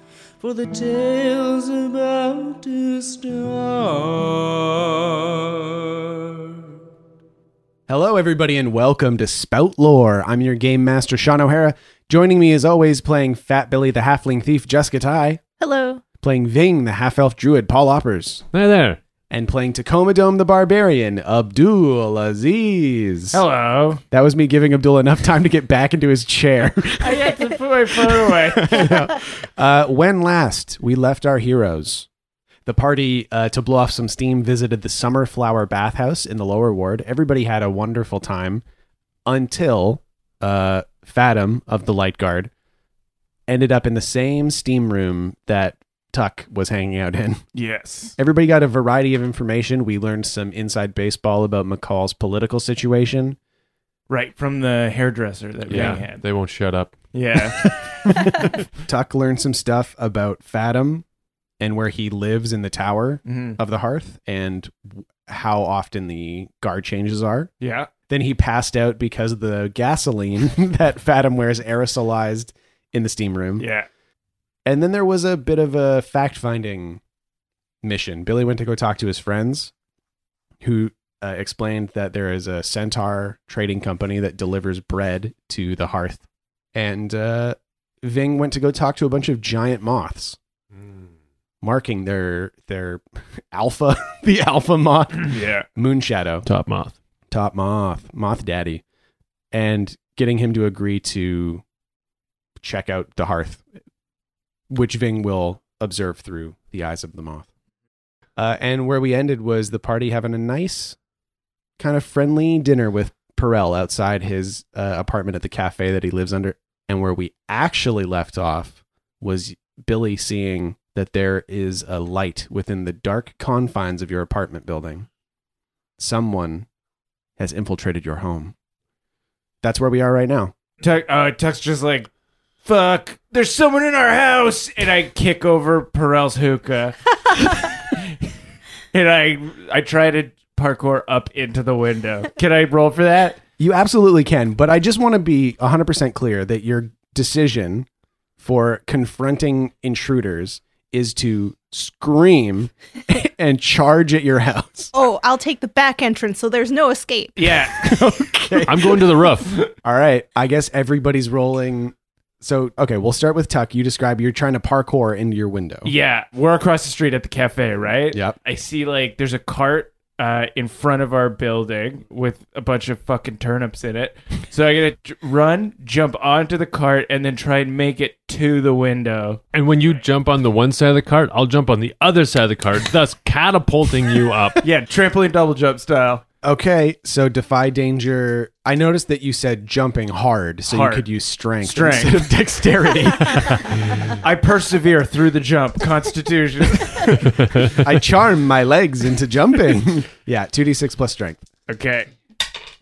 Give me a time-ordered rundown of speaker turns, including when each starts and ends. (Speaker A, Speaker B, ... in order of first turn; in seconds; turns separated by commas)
Speaker A: 0.4-6.6, Speaker B: 7.9-15.4, Speaker C: 15.6-16.0, Speaker B: 16.2-18.4, Speaker D: 18.5-19.0, Speaker B: 19.3-23.4, Speaker E: 23.3-24.0, Speaker B: 24.1-27.3, Speaker E: 27.0-29.0, Speaker B: 28.2-32.1, Speaker B: 32.7-38.6, Speaker B: 39.3-42.5, Speaker B: 43.5-47.4, Speaker E: 47.5-48.2, Speaker B: 48.2-53.4, Speaker E: 54.1-56.2, Speaker D: 55.7-57.0, Speaker E: 57.1-57.7, Speaker B: 58.0-61.0, Speaker B: 61.6-67.5, Speaker E: 63.3-63.6, Speaker E: 67.6-67.9, Speaker B: 68.1-73.7, Speaker E: 73.6-73.9, Speaker B: 74.7-77.0, Speaker B: 77.8-79.7, Speaker B: 80.6-86.2, Speaker B: 86.7-90.4, Speaker B: 91.6-96.5, Speaker E: 95.3-95.7, Speaker D: 96.5-97.0, Speaker B: 97.3-98.8, Speaker B: 99.5-101.6, Speaker B: 102.6-103.6, Speaker B: 104.7-107.5, Speaker B: 108.4-111.0, Speaker B: 111.8-125.1, Speaker B: 126.0-126.7, Speaker B: 127.4-128.5, Speaker B: 129.6-130.5, Speaker E: 130.8-132.1, Speaker E: 132.7-138.3, Speaker E: 138.9-143.4, Speaker B: 143.6-147.9, Speaker B: 148.4-154.9, Speaker C: 154.9-157.5, Speaker E: 157.4-157.9, Speaker B: 157.7-159.2, Speaker D: 158.6-159.7, Speaker B: 159.8-165.9, Speaker E: 165.8-179.4, Speaker D: 179.5-184.6, Speaker E: 184.6-186.2, Speaker B: 186.4-193.6, Speaker E: 190.7-191.1, Speaker E: 191.6-192.3, Speaker E: 194.2-197.3, Speaker D: 197.4-197.8, Speaker B: 197.8-201.4, Speaker E: 201.7-202.1